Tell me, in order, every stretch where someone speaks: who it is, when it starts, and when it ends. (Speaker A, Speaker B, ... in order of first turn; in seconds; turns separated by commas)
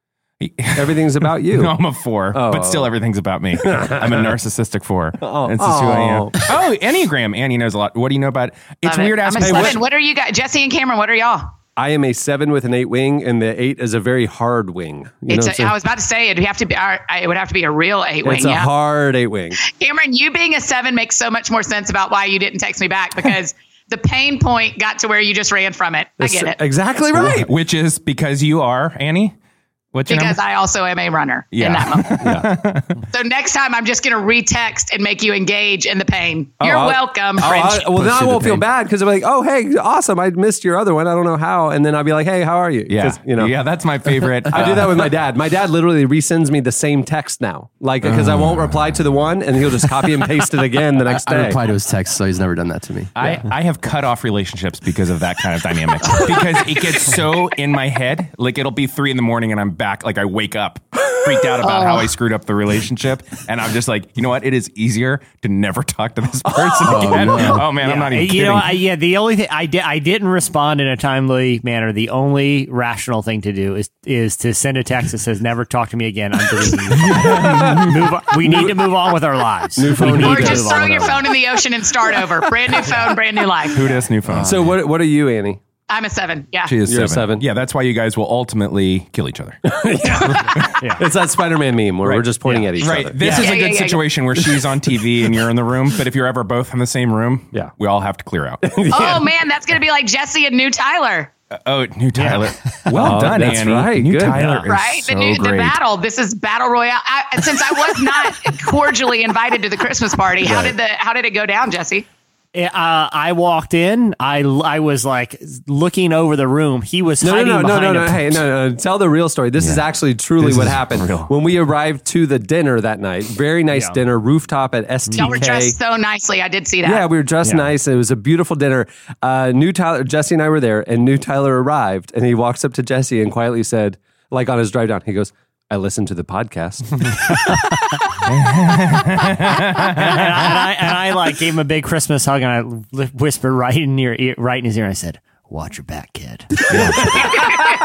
Speaker A: 0.4-9.8, Speaker B: 0.8-1.8, Speaker B: 2.3-2.9, Speaker B: 3.6-4.3, Speaker B: 5.2-6.4, Speaker C: 8.8-11.5, Speaker B: 9.4-9.8, Speaker B: 11.8-15.8, Speaker C: 15.3-18.7, Speaker B: 18.2-19.6, Speaker C: 19.6-26.6, Speaker B: 26.2-27.5, Speaker A: 27.1-29.4, Speaker A: 29.9-30.4, Speaker C: 30.1-32.2, Speaker A: 31.5-33.0, Speaker B: 32.2-32.5, Speaker C: 33.1-38.0, Speaker B: 36.6-43.6, Speaker A: 42.9-45.1, Speaker B: 44.5-51.6, Speaker D: 48.1-48.5, Speaker D: 51.1-53.4, Speaker A: 53.2-68.8, Speaker C: 61.6-62.1, Speaker D: 66.8-67.7, Speaker E: 67.6-81.3, Speaker A: 77.0-78.0, Speaker B: 77.2-79.0, Speaker B: 79.8-80.8, Speaker C: 80.2-83.8, Speaker A: 83.7-84.7, Speaker B: 84.4-85.6, Speaker C: 85.9-86.7, Speaker A: 86.7-89.7, Speaker B: 86.8-87.5, Speaker B: 89.7-93.5, Speaker A: 90.4-90.8, Speaker E: 90.8-91.0, Speaker A: 92.8-98.6, Speaker C: 93.2-94.0, Speaker B: 98.6-99.3, Speaker C: 98.9-101.3, Speaker A: 101.6-105.7, Speaker E: 102.2-102.9, Speaker B: 102.9-104.5, Speaker E: 104.3-104.7, Speaker C: 104.7-112.0, Speaker B: 110.4-110.8, Speaker E: 112.5-118.4, Speaker B: 117.2-125.8, Speaker A: 120.6-121.3, Speaker E: 123.7-124.0, Speaker E: 125.1-125.4, Speaker C: 125.2-127.1, Speaker B: 126.8-137.3, Speaker A: 138.3-140.4, Speaker E: 139.9-147.3, Speaker A: 146.7-147.4